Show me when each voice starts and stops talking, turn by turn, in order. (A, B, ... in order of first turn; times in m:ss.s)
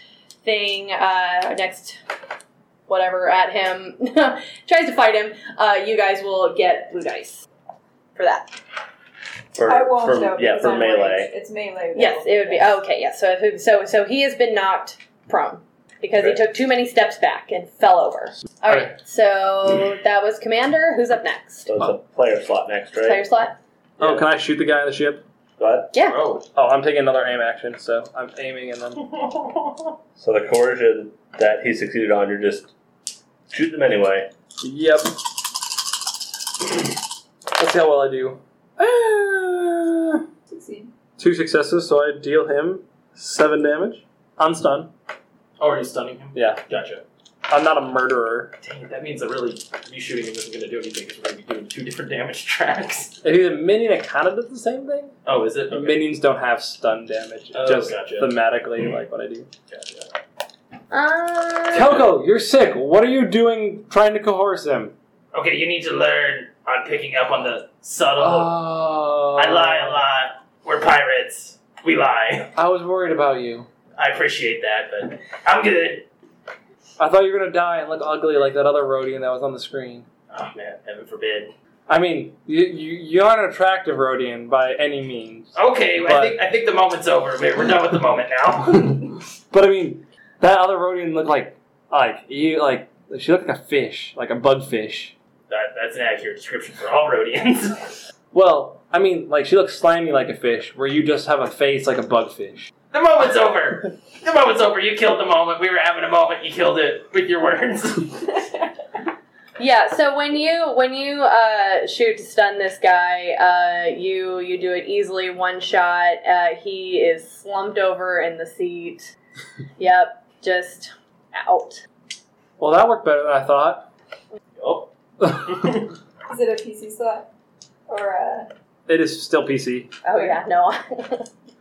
0:00.4-0:02.0 A
0:02.9-0:07.4 A
0:08.2-0:08.5 A
0:09.5-0:11.3 B
0:09.7-0:12.8 C
0:11.9-0:21.8 A
0:21.7-0:23.2 B
0:23.0-0:23.6 A
0:24.0-0:25.2 D
0:25.6-0:25.9 B
0:25.9-0:26.2 A
0:26.0-0:26.5 E
0:26.5-0:29.0 D
0:29.0-0:29.8 E
0:30.2-0:32.7 B
0:33.5-0:34.3 B
0:34.6-0:35.2 D
0:37.6-0:40.2 D
0:40.5-0:40.9 C
0:41.2-0:44.9 D
0:45.6-0:47.0 E
0:46.3-0:46.6 D
0:47.5-0:48.5 D
0:48.6-0:53.2 E
0:53.2-0:55.1 D
0:55.2-0:56.0 E
0:55.7-0:59.5 D
0:57.5-0:58.3 E
0:59.7-1:00.1 E
1:00.9-1:02.0 A
1:01.7-1:04.9 D
1:05.3-1:08.6 E
1:08.2-1:10.0 D
1:09.4-1:12.5 E
1:12.5-1:13.7 D
1:14.0-1:16.0 E
1:17.0-1:20.0 D
1:20.3-1:21.5 E
1:21.9-1:26.4 D
1:25.5-1:29.2 E
1:29.5-1:35.1 D
1:35.5-1:38.0 E
1:38.3-1:42.7 D
1:42.9-1:48.4 E
1:49.6-1:59.1 A
1:59.8-2:01.8 A
2:02.6-2:03.9 D
2:04.6-2:05.9 E
2:06.3-2:07.3 C
2:07.9-2:08.5 C
2:08.9-2:09.9 D
2:10.0-2:11.3 A